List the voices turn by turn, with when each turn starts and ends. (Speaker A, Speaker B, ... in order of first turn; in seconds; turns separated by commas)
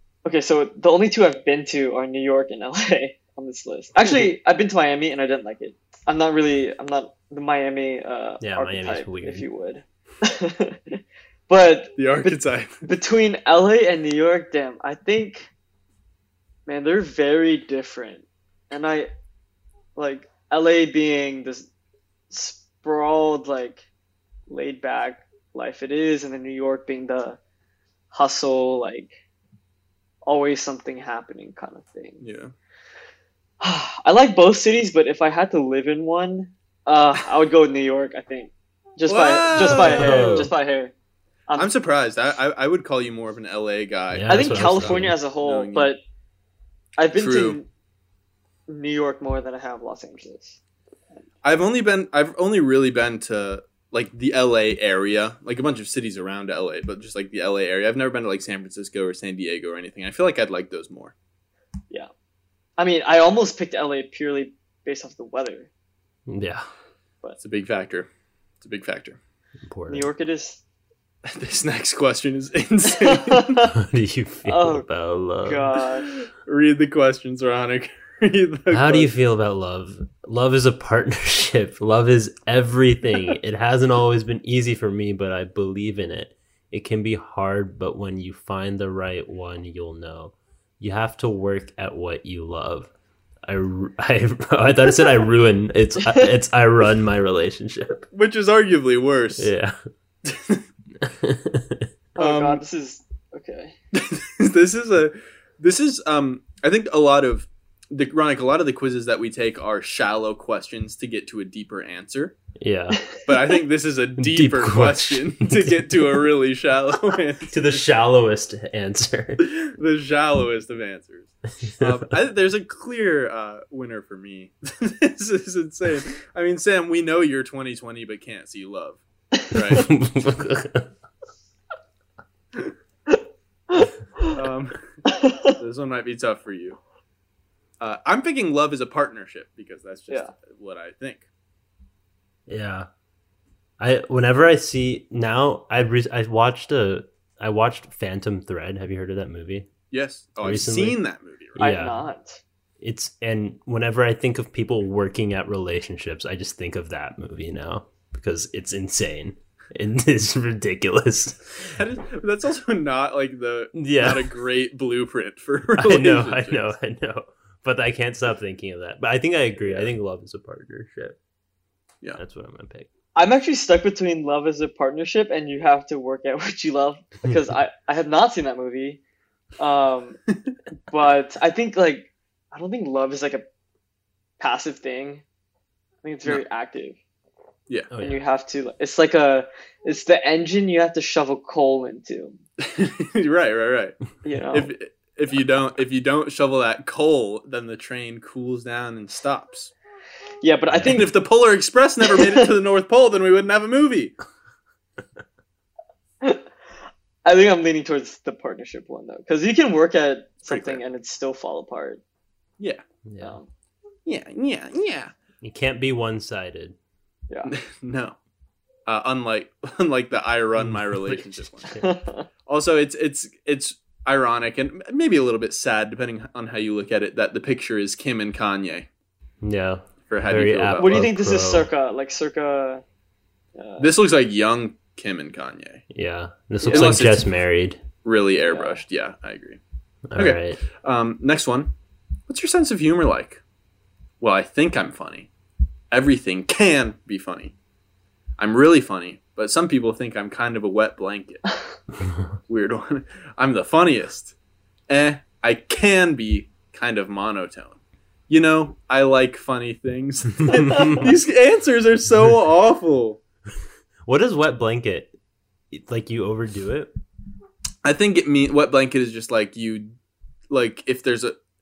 Speaker A: 0.2-12.0, Speaker B: 8.4-9.5, Speaker C: 12.0-12.8, Speaker A: 12.8-15.5, Speaker A: 16.6-19.1, Speaker A: 19.9-21.7, Speaker A: 22.3-23.8, Speaker A: 24.5-27.4, Speaker A: 28.1-29.1, Speaker A: 30.2-32.2, Speaker C: 32.2-32.5, Speaker A: 33.6-40.9, Speaker C: 39.1-40.5, Speaker B: 39.6-40.5, Speaker C: 41.5-45.9, Speaker B: 44.1-45.1, Speaker A: 44.3-46.0, Speaker A: 47.0-47.7, Speaker C: 47.1-47.6, Speaker A: 48.7-50.6, Speaker C: 51.4-61.1, Speaker A: 62.8-65.7, Speaker B: 66.3-66.7, Speaker C: 67.4-68.1, Speaker C: 68.6-69.2, Speaker B: 69.7-70.1, Speaker A: 69.9-70.6, Speaker C: 71.2-73.6, Speaker A: 73.0-73.7, Speaker B: 73.7-75.8, Speaker A: 74.4-74.8, Speaker A: 75.4-76.1, Speaker C: 76.1-79.1, Speaker B: 78.7-92.9, Speaker B: 93.5-98.0, Speaker A: 96.0-96.3, Speaker C: 98.1-99.5, Speaker B: 99.4-99.8, Speaker C: 100.2-100.6, Speaker B: 101.0-101.9, Speaker A: 102.2-103.7, Speaker C: 102.2-102.6, Speaker C: 103.9-112.3, Speaker B: 112.6-113.0, Speaker C: 113.2-117.8, Speaker B: 114.2-116.3, Speaker B: 117.5-119.5, Speaker C: 119.4-129.9, Speaker B: 121.6-122.1, Speaker B: 129.7-130.9, Speaker A: 133.7-134.3, Speaker C: 134.3-134.8, Speaker A: 135.1-135.5, Speaker C: 135.5-136.8, Speaker C: 137.8-141.2, Speaker B: 142.5-142.9, Speaker B: 143.8-149.7, Speaker C: 149.9-151.6, Speaker B: 150.4-151.0, Speaker B: 151.6-152.0, Speaker A: 151.6-152.4, Speaker B: 152.8-161.8, Speaker C: 161.6-166.7, Speaker B: 163.7-164.3, Speaker B: 165.8-171.2, Speaker B: 172.2-172.9, Speaker A: 173.2-179.0, Speaker A: 179.6-180.2, Speaker A: 180.9-183.4, Speaker A: 184.4-185.2, Speaker A: 186.0-187.0, Speaker B: 187.9-188.2, Speaker A: 188.0-192.4, Speaker C: 192.6-194.0, Speaker A: 194.2-194.7, Speaker C: 194.5-199.7, Speaker A: 200.4-201.1, Speaker B: 200.7-201.0, Speaker C: 200.9-204.1, Speaker A: 202.0-202.5, Speaker A: 207.2-212.0, Speaker C: 210.5-210.8, Speaker B: 213.1-213.4, Speaker A: 213.2-213.5, Speaker C: 214.1-215.1, Speaker B: 215.4-216.8, Speaker C: 217.5-218.2, Speaker C: 218.9-221.7, Speaker B: 220.6-221.9, Speaker A: 221.8-222.3, Speaker C: 222.5-228.9, Speaker B: 229.4-231.7, Speaker C: 230.1-231.0, Speaker A: 230.8-232.8, Speaker A: 233.6-233.9, Speaker C: 233.8-235.8, Speaker B: 235.9-237.8, Speaker A: 236.6-236.9, Speaker C: 236.6-237.3, Speaker C: 238.0-239.6, Speaker A: 238.5-238.8, Speaker B: 240.1-240.6, Speaker C: 240.2-241.7, Speaker C: 242.3-243.4, Speaker C: 244.2-245.3, Speaker C: 245.9-247.5, Speaker C: 248.4-251.4, Speaker C: 252.5-254.3, Speaker C: 254.9-257.8, Speaker C: 258.3-263.2, Speaker A: 260.5-261.1, Speaker B: 260.5-261.1, Speaker B: 264.1-265.1, Speaker B: 265.7-266.9, Speaker C: 267.8-269.9, Speaker C: 270.5-271.3